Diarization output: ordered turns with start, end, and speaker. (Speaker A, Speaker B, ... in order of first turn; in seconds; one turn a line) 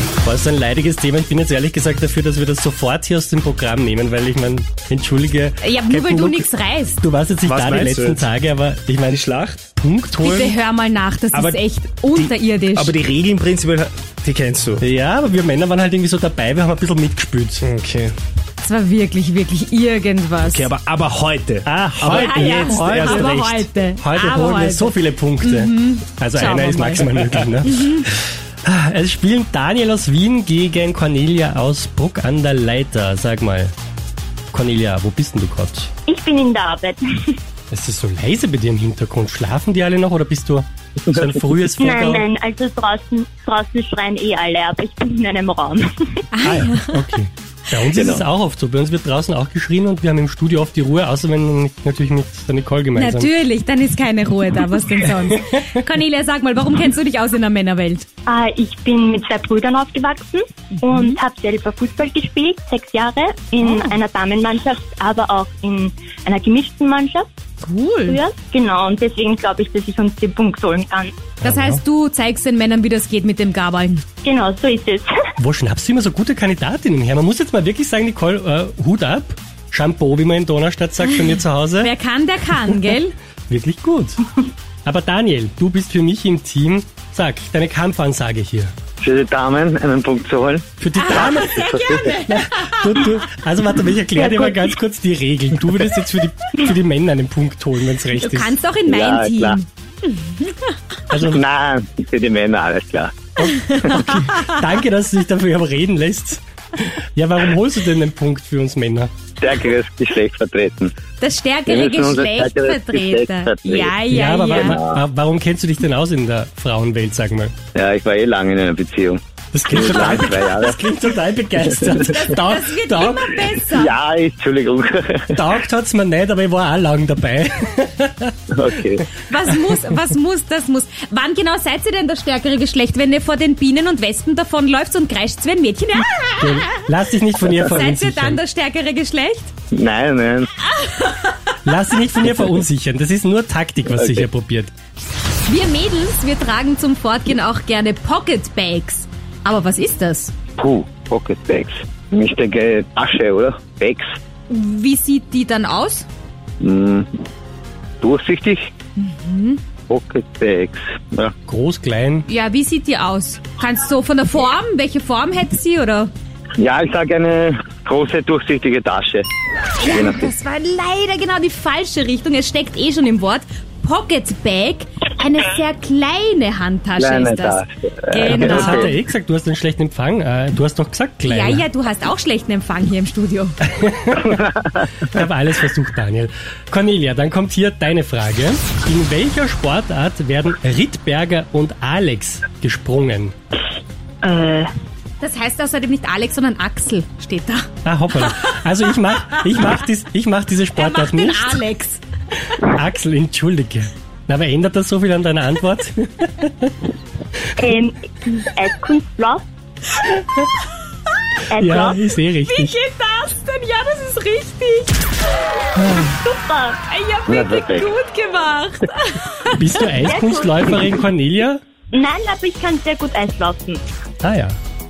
Speaker A: 0.2-6.5
Speaker B: 5.6-7.0
Speaker A: 7.0-10.5
Speaker C: 7.4-8.3
Speaker C: 9.1-9.7
Speaker B: 10.2-12.9
Speaker C: 11.3-14.8
Speaker A: 14.8-17.6
Speaker C: 17.6-18.1
Speaker B: 18.6-20.7
Speaker C: 20.4-23.6
Speaker A: 21.6-23.4
Speaker B: 22.0-27.1
Speaker A: 24.0-33.7
Speaker B: 27.6-28.1
Speaker A: 34.5-35.9
Speaker D: 36.1-37.4
Speaker A: 37.7-42.3
Speaker D: 41.8-46.2
Speaker B: 46.3-47.0
Speaker A: 46.4-53.3
Speaker E: 47.9-48.2
Speaker B: 52.9-58.0
Speaker D: 58.2-67.3
Speaker B: 63.6-63.9
Speaker B: 67.6-68.2
Speaker D: 68.1-71.2
Speaker B: 71.4-74.0
Speaker A: 71.4-71.8
Speaker D: 74.2-75.1
Speaker A: 75.4-81.9
Speaker B: 81.8-83.1
Speaker A: 83.5-84.2
Speaker A: 84.8-88.7
Speaker E: 89.0-92.0
Speaker A: 90.8-98.8
Speaker B: 91.0-93.2
Speaker B: 98.2-100.7
Speaker E: 98.8-99.6
Speaker A: 101.1-101.4
Speaker E: 101.3-103.3
Speaker A: 103.4-109.1
Speaker B: 103.4-104.6
Speaker E: 109.4-110.9
Speaker B: 111.2-114.8
Speaker E: 111.7-114.0
Speaker A: 114.1-117.5
Speaker E: 114.6-115.0
Speaker E: 117.7-120.8
Speaker A: 119.5-123.5
Speaker B: 119.7-120.5
Speaker B: 121.8-123.9
Speaker E: 123.6-125.4
Speaker A: 125.3-128.3
Speaker E: 128.5-129.1
Speaker B: 129.2-136.8
Speaker A: 136.4-138.4
Speaker B: 137.6-139.5
Speaker E: 139.7-140.5
Speaker B: 140.8-141.5
Speaker A: 141.6-144.7
Speaker B: 145.4-150.3
Speaker E: 150.6-154.1
Speaker B: 154.5-156.1
Speaker E: 156.6-157.1
Speaker E: 158.0-158.7
Speaker B: 159.0-159.6
Speaker E: 159.9-161.3
Speaker A: 161.5-162.2
Speaker B: 162.2-166.1
Speaker E: 166.6-169.2
Speaker B: 169.8-178.9
Speaker E: 169.8-170.2
Speaker E: 177.0-178.9
Speaker A: 178.2-181.7
Speaker B: 181.2-183.6
Speaker A: 183.6-184.4
Speaker E: 184.6-184.9
Speaker A: 185.1-193.3
Speaker D: 194.2-194.7
Speaker B: 195.2-197.7
Speaker A: 197.8-201.6
Speaker B: 198.2-198.6
Speaker B: 200.7-202.0
Speaker A: 202.5-206.7
Speaker D: 207.6-209.4
Speaker D: 211.5-212.0
Speaker A: 211.5-212.7
Speaker B: 212.4-215.0
Speaker A: 215.8-216.1
Speaker D: 215.9-216.8
Speaker B: 216.9-219.9
Speaker E: 217.3-217.9
Speaker A: 219.5-221.6
Speaker D: 219.9-221.0
Speaker D: 221.9-223.8
Speaker A: 224.2-224.6